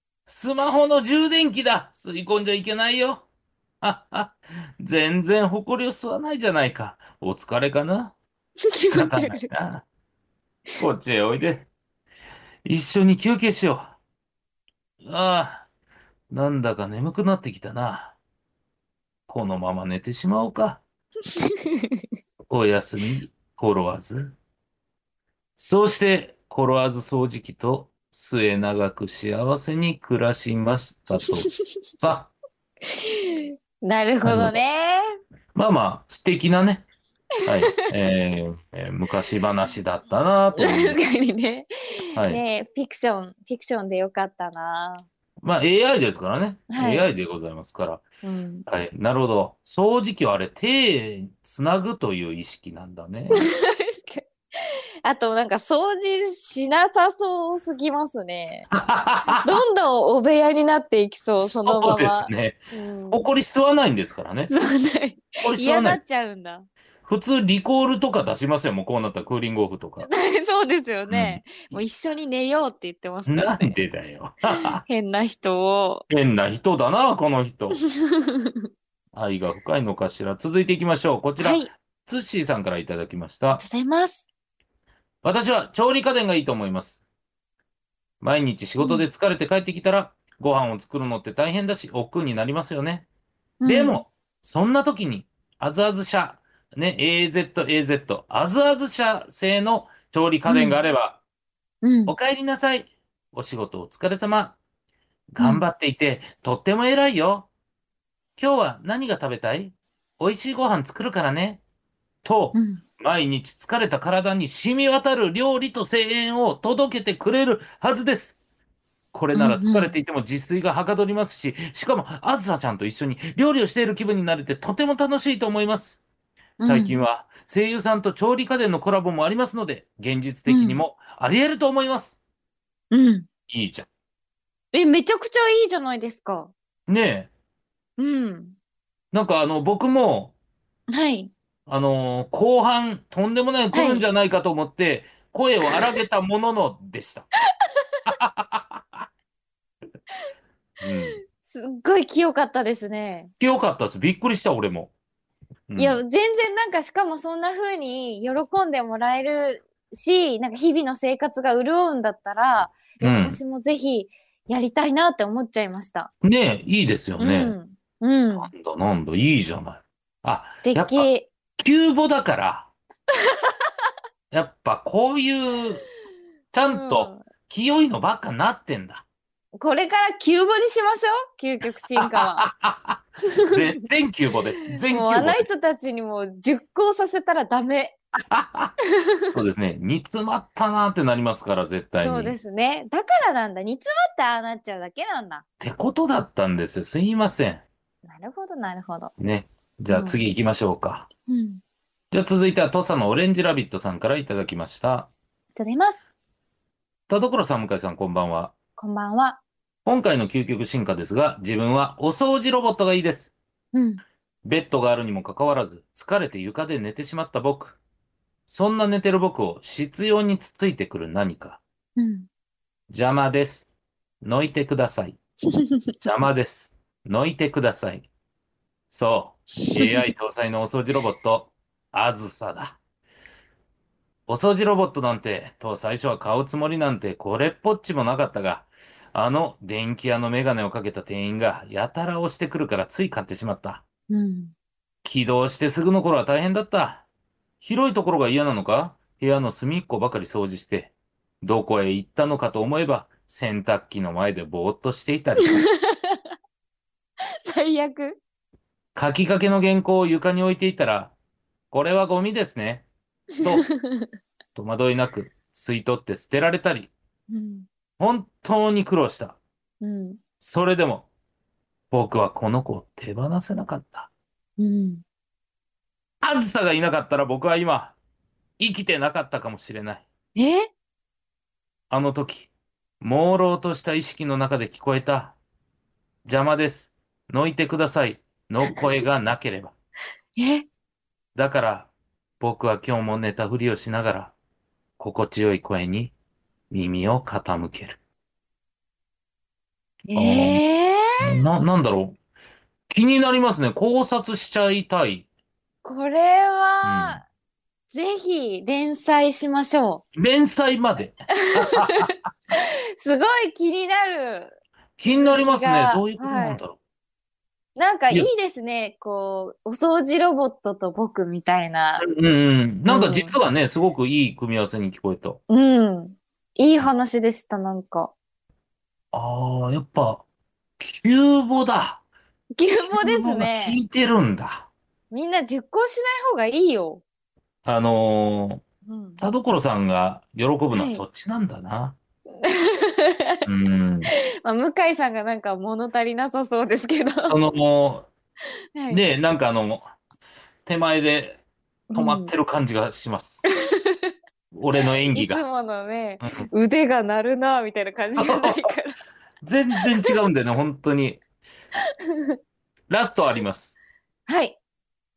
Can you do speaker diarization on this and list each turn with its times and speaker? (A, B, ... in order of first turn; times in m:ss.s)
0:00.3-0:03.3 A
0:03.8-0:08.1 A
0:08.6-0:09.5 B
0:08.9-0:09.8 A
0:10.8-0:11.7 A
0:12.6-0:14.0 A
0:15.0-0:15.7 A
0:16.3-0:18.2 A
0:19.3-0:20.8 A
0:21.3-0:22.0 B
0:22.5-0:24.4 A
0:25.6-0:32.3 A
0:31.2-0:31.8 B
0:32.8-0:35.0 B
0:34.2-0:34.6 A
0:35.5-0:36.9 A
0:37.4-0:37.9 B
0:37.4-0:41.0 A
0:40.6-0:45.0 B
0:42.2-0:42.4 A
0:45.4-0:48.0 A
0:46.7-0:47.1 B
0:48.2-0:48.6 B
0:48.7-0:53.5 A
0:53.3-0:58.7 B
0:58.7-0:59.6 A
0:59.3-1:03.2 B
1:01.4-1:02.6 A
1:03.1-1:04.5 A
1:04.4-1:06.7 B
1:05.4-1:06.0 A
1:07.0-1:10.1 A
1:10.0-1:13.8 B
1:11.1-1:11.7 A
1:13.3-1:14.8 A
1:14.5-1:16.0 B
1:16.1-1:17.8 A
1:17.8-1:18.6 B
1:19.1-1:23.6 A
1:21.4-1:21.7 B
1:23.6-1:24.3 B
1:25.2-1:27.0 A
1:28.2-1:33.0 A
1:28.8-1:29.0 B
1:33.6-1:34.0 B
1:33.6-1:41.2 A
1:40.4-1:40.8 B
1:41.8-1:42.1 B
1:42.1-1:44.6 A
1:45.3-1:47.5 A
1:45.4-1:45.6 B
1:48.4-1:51.6 A
1:52.2-1:58.4 A
1:52.5-1:52.8 B
1:59.1-2:06.0 A
1:59.3-1:59.9 B
2:06.6-2:07.0 B
2:06.6-2:12.2 A
2:10.5-2:10.8 B
2:12.9-2:13.3 B
2:13.5-2:13.9 A
2:14.7-2:16.5 B
2:16.9-2:17.3 A
2:18.0-2:18.6 B
2:19.1-2:20.3 A
2:20.9-2:21.3 B
2:21.7-2:27.3 A
2:23.7-2:24.0 B
2:27.7-2:28.0 B
2:28.0-2:29.1 A
2:30.8-2:31.2 A
2:31.1-2:33.3 B
2:33.4-2:34.9 A
2:35.7-2:36.0 A
2:35.8-2:46.1 B
2:43.0-2:43.4 A
2:46.2-2:47.6 A
2:47.2-2:48.5 B
2:48.4-2:52.7 A
2:50.6-2:51.3 B
2:53.2-2:53.5 B
2:54.3-2:55.8 A
2:56.5-2:59.0 A
2:56.7-2:57.2 B
2:59.6-3:02.5 B
3:02.0-3:05.4 A
3:03.2-3:03.8 B
3:04.7-3:08.0 B
3:08.3-3:08.7 A
3:09.0-3:09.3 B
3:09.3-3:12.4 A
3:11.9-3:15.4 B
3:15.6-3:17.6 A
3:18.0-3:19.1 B
3:19.2-3:21.1 A
3:19.9-3:20.2 B
3:21.3-3:21.6 B
3:22.1-3:25.1 A
3:25.6-3:26.0 B
3:27.1-3:28.5 A
3:28.8-3:29.4 B
3:29.8-3:33.3 A
3:33.7-3:34.0 B
3:34.4-3:37.8 A
3:38.5-3:41.6 A
3:42.0-3:42.3 B
3:42.9-3:43.7 A
3:44.2-3:45.2 A
3:45.5-3:45.9 B
3:46.0-3:48.1 A
3:48.9-3:52.8 A
3:49.6-3:50.1 B
3:54.3-4:03.8 A
4:04.1-4:04.5 B
4:05.0-4:07.0 A
4:07.6-4:15.7 A
4:15.4-4:16.2 B
4:17.4-4:18.2 B
4:18.9-4:21.1 A
4:21.7-4:22.9 A
4:23.4-4:24.1 B
4:23.4-4:23.7 A
4:24.5-4:26.9 A
4:27.3-4:27.7 B
4:28.0-4:29.4 A
4:29.8-4:30.2 B
4:30.4-4:31.1 A
4:31.9-4:34.1 A
4:34.6-4:35.0 B
4:36.2-4:38.0 A
4:38.6-4:40.0 A
4:40.4-4:40.7 B
4:41.9-4:42.5 A
4:43.0-4:45.4 A
4:46.2-4:49.7 A
4:50.4-4:50.6 B
4:51.3-4:54.3 A
4:55.0-4:56.1 A
4:56.7-4:58.0 A
5:00.1-5:01.3 B
5:00.2-5:00.6 A
5:01.2-5:02.2 A
5:02.9-5:05.3 A
5:05.8-5:07.2 B
5:06.8-5:07.2 A
5:07.9-5:10.0 B
5:10.1-5:12.3 A
5:11.3-5:14.6 B
5:15.0-5:16.8 A
5:15.1-5:16.6 B
5:17.8-5:22.0 B
5:22.0-5:25.4 A
5:22.8-5:23.4 B
5:25.5-5:28.1 B
5:29.1-5:30.2 A
5:30.8-5:32.0 A
5:32.6-5:33.8 B
5:32.8-5:34.7 A
5:35.1-5:37.0 B
5:37.6-5:38.6 A
5:38.8-5:39.2 B
5:39.2-5:42.0 A
5:40.7-5:41.0 B
5:42.4-5:43.4 B
5:43.4-5:44.1 A
5:44.1-5:47.4 B
5:47.2-5:48.1 A
5:48.8-5:49.0 B
5:48.9-5:49.9 A
5:50.6-5:51.4 A
5:51.9-5:52.3 B
5:51.9-5:53.4 A
5:53.5-5:54.1 B
5:54.5-5:55.4 A
5:54.8-5:59.0 B
5:56.2-5:56.5 A
5:58.2-5:58.7 A
5:59.4-6:01.2 A
5:59.8-6:00.1 B
6:02.1-6:02.4 B
6:02.9-6:03.7 A
6:04.3-6:04.6 B